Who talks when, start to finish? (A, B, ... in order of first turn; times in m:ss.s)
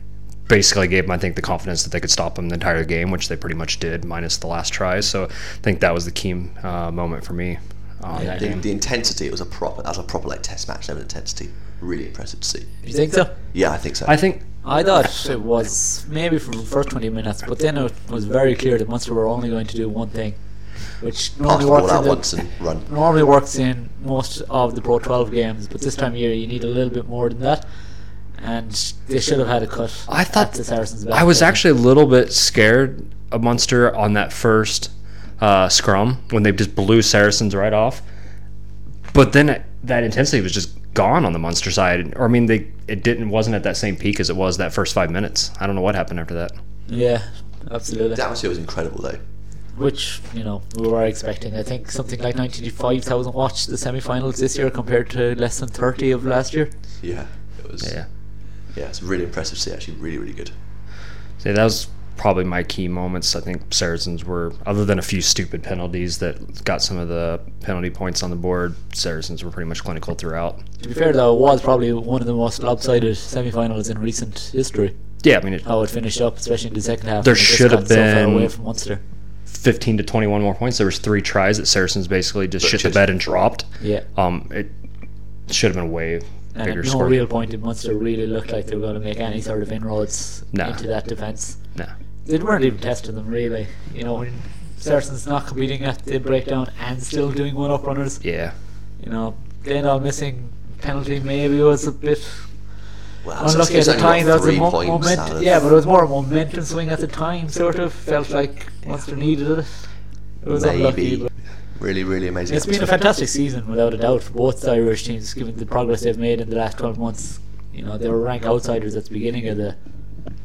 0:00.5-0:08.6 A
0:08.1-0:08.4 B
0:08.2-0:12.7 C
0:12.8-0:13.3 B
0:13.5-0:14.2 C
0:14.1-0:14.4 A
0:14.6-0:20.4 B
0:21.0-0:27.6 B
0:21.4-0:22.9 C
0:28.4-0:31.6 B
0:30.1-0:30.5 A
0:31.1-0:38.0 A
0:39.1-0:46.5 A
0:46.9-0:48.2 B
0:48.1-0:49.2 C
0:49.8-0:56.7 B
0:57.0-0:57.9 C
0:58.7-1:00.5 C
1:01.4-1:10.6 A
1:10.8-1:14.9 B
1:15.2-1:15.6 A
1:15.6-1:19.0 B
1:17.2-1:18.5 A
1:19.5-1:24.7 A
1:22.6-1:23.0 C
1:25.5-1:27.2 A
1:26.6-1:31.6 B
1:30.5-1:30.8 A
1:32.2-1:38.2 B
1:38.2-1:38.5 A
1:39.0-1:42.5 B
1:43.2-1:45.6 C
1:43.4-1:49.7 B
1:50.4-1:51.3 B
1:50.5-1:52.9 C
1:52.5-1:59.8 B